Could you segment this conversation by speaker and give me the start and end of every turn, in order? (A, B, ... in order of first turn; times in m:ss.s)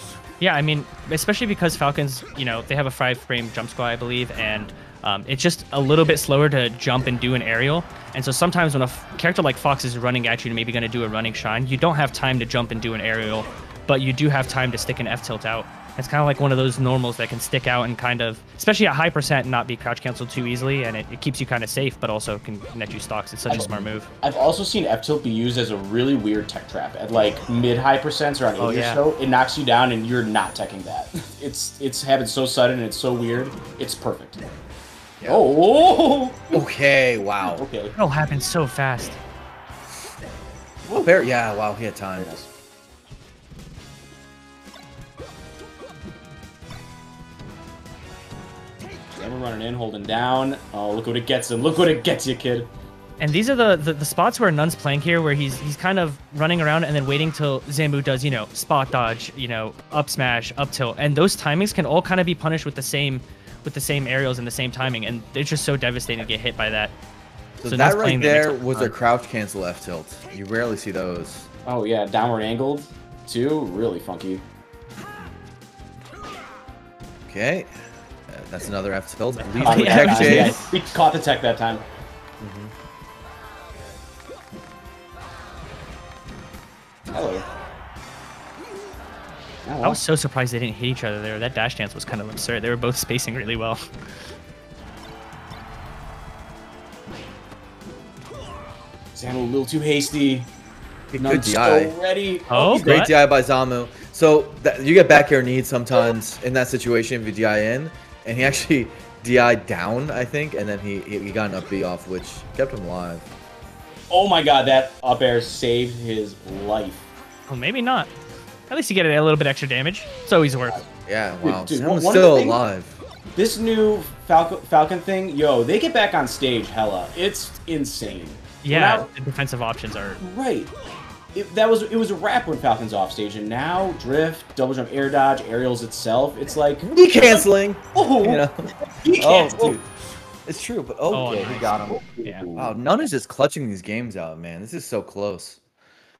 0:00.4-0:24.1 A
0:23.5-0:34.4 B
0:28.6-0:29.0 A
0:35.2-0:36.6 B
0:36.5-0:37.6 C
0:37.4-0:38.0 B
0:38.0-0:39.2 A
0:40.9-0:41.2 B
0:40.9-0:42.3 C
0:42.2-0:42.5 B
0:49.2-0:52.7 B
0:53.2-1:06.9 A
1:07.6-1:11.5 C
1:07.6-1:08.9 A
1:11.6-1:14.4 B
1:17.3-1:17.7 C
1:18.3-1:20.6 C
1:19.4-1:20.7 A
1:19.6-1:21.8 B
1:22.4-1:22.7 B
1:27.1-1:27.4 B
1:29.6-1:30.0 B
1:29.8-1:33.8 A
1:39.1-1:40.5 B
1:41.1-1:41.9 C
1:41.1-1:43.1 B
1:42.5-1:43.1 A
1:42.7-1:53.2 C
1:54.1-1:57.0 B
1:57.5-1:58.1 A
1:58.7-2:00.8 A
2:01.0-2:03.0 C
2:01.4-2:02.6 B
2:03.3-2:09.1 B
2:08.6-2:10.2 A
2:10.2-2:10.7 B
2:11.3-2:18.5 B
2:16.9-2:19.8 C
2:19.0-2:19.8 B
2:20.4-2:22.0 C
2:21.1-2:22.5 A
2:21.9-2:22.8 B
2:22.6-2:25.6 C